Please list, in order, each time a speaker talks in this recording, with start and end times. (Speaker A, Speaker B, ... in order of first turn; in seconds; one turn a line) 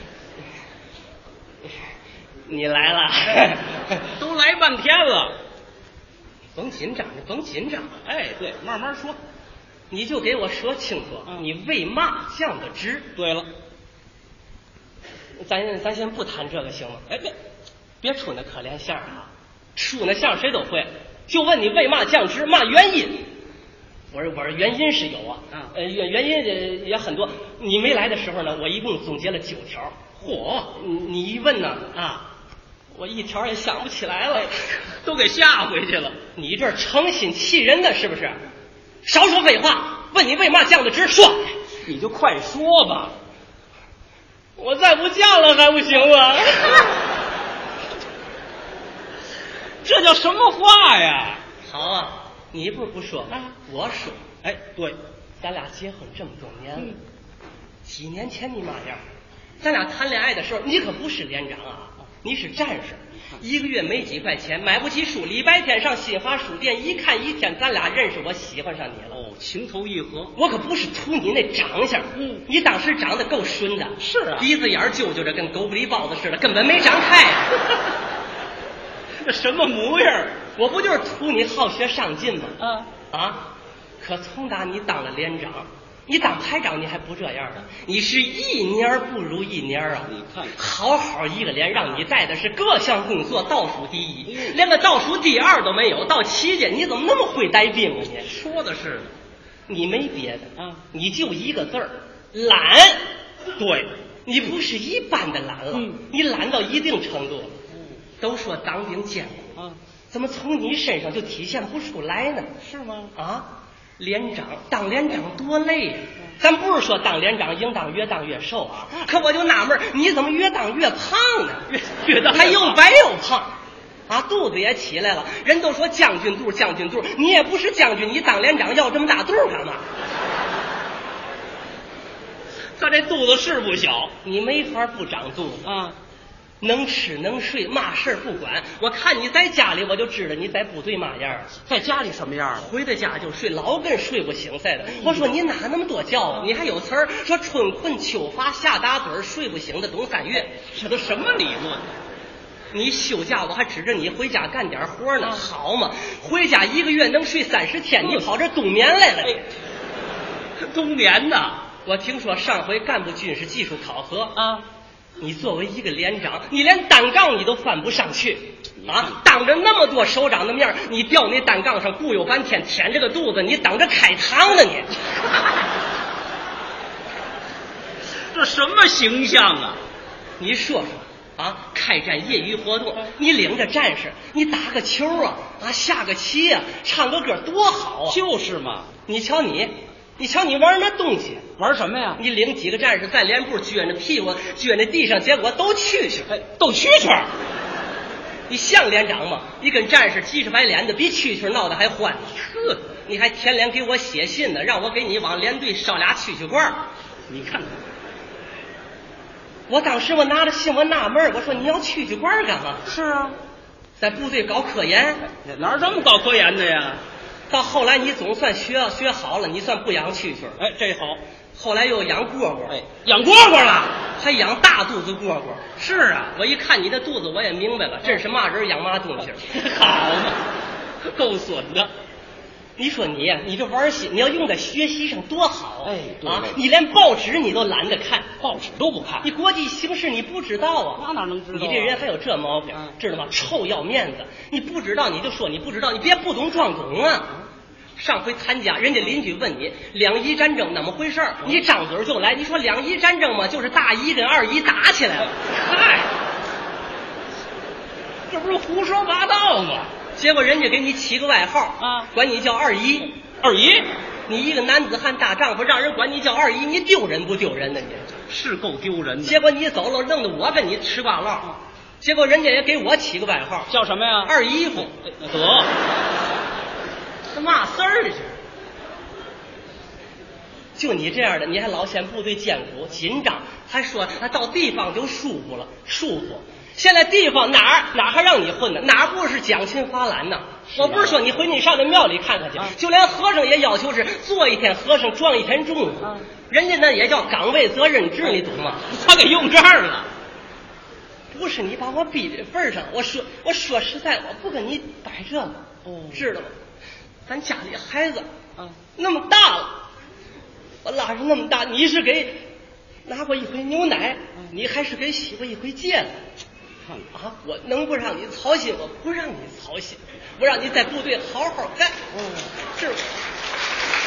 Speaker A: 2.5-4.0
Speaker B: 4.1-5.3
Speaker A: 6.5-7.9
Speaker B: 8.0-9.2
Speaker A: 9.9-13.1
Speaker B: 13.1-13.5
Speaker A: 15.4-17.0
Speaker A: 18.0-23.3
Speaker A: 24.1-29.9
Speaker B: 30.2-30.7
Speaker A: 30.7-31.9
Speaker B: 31.9-32.3
Speaker A: 32.9-34.5
Speaker B: 34.4-36.1
Speaker A: 36.3-38.4
Speaker A: 39.0-41.5
Speaker B: 41.8-43.1
Speaker A: 44.6-46.9
Speaker B: 49.8-51.4
Speaker A: 51.6-54.2
Speaker B: 54.4-55.0
Speaker A: 55.4-56.9
Speaker A: 57.8-59.0
Speaker A: 59.6-69.2
Speaker B: 69.1-70.3
Speaker A: 70.3-77.6
Speaker B: 72.2-72.4
Speaker B: 74.0-74.5
Speaker B: 79.2-80.4
Speaker A: 80.6-82.6
Speaker B: 82.6-82.9
Speaker A: 83.1-98.3
Speaker B: 90.0-90.5
Speaker B: 94.3-94.5
Speaker B: 98.3-99.1
Speaker A: 99.7-103.0
Speaker B: 103.6-103.9
Speaker A: 104.2-107.5
Speaker B: 107.7-108.0
Speaker A: 108.2-109.5
Speaker A: 110.1-112.5
Speaker B: 112.6-113.1
Speaker A: 113.1-121.7
Speaker B: 121.7-122.8
Speaker A: 122.3-123.5
Speaker A: 124.1-129.8
Speaker B: 132.8-134.1
Speaker A: 134.2-135.7
Speaker B: 135.6-135.9
Speaker A: 136.6-141.5
Speaker B: 141.7-142.6
Speaker A: 142.5-150.5
Speaker B: 145.0-145.2
Speaker B: 150.5-151.9
Speaker A: 152.7-159.4
Speaker B: 160.6-161.6
Speaker A: 161.8-164.3
Speaker B: 164.3-164.7
Speaker A: 165.2-174.9
Speaker B: 168.8-169.1
Speaker B: 178.3-179.8
Speaker A: 180.4-188.2
Speaker B: 188.1-188.9
Speaker A: 189.1-191.5
Speaker B: 191.6-192.2
Speaker A: 192.2-196.3
Speaker B: 196.3-197.3
Speaker A: 198.5-202.3
Speaker B: 202.3-202.8
Speaker A: 203.1-206.8
Speaker B: 207.3-207.8
Speaker A: 209.7-212.8
Speaker B: 212.9-213.3
Speaker A: 214.0-215.3
Speaker B: 215.4-217.0
Speaker A: 217.5-220.6
Speaker B: 220.6-221.2
Speaker A: 221.5-222.8
Speaker B: 222.7-224.0
Speaker A: 224.2-225.7
Speaker B: 225.8-226.3
Speaker A: 226.3-229.5
Speaker B: 229.4-230.4
Speaker B: 231.0-231.9
Speaker A: 232.8-238.3
Speaker B: 235.8-236.6
Speaker B: 238.4-239.3
Speaker A: 239.2-247.3
Speaker B: 241.0-242.0
Speaker A: 248.0-255.3
Speaker B: 255.4-256.1
Speaker B: 258.3-259.9
Speaker A: 260.1-263.1
Speaker B: 261.8-262.1
Speaker B: 263.4-263.9
Speaker A: 264.3-268.1
Speaker B: 268.3-269.4
Speaker A: 269.2-273.7
Speaker B: 273.7-275.7
Speaker A: 274.2-274.9
Speaker A: 277.3-278.4
Speaker A: 280.8-298.8
Speaker B: 290.7-291.2
Speaker B: 298.8-300.1
Speaker A: 301.3-305.6
Speaker B: 305.8-306.3
Speaker A: 306.1-306.5
Speaker A: 307.3-308.2
Speaker A: 308.9-309.8
Speaker A: 310.8-312.4
Speaker A: 313.1-316.2
Speaker A: 317.1-322.0
Speaker B: 322.1-322.5
Speaker A: 322.7-323.0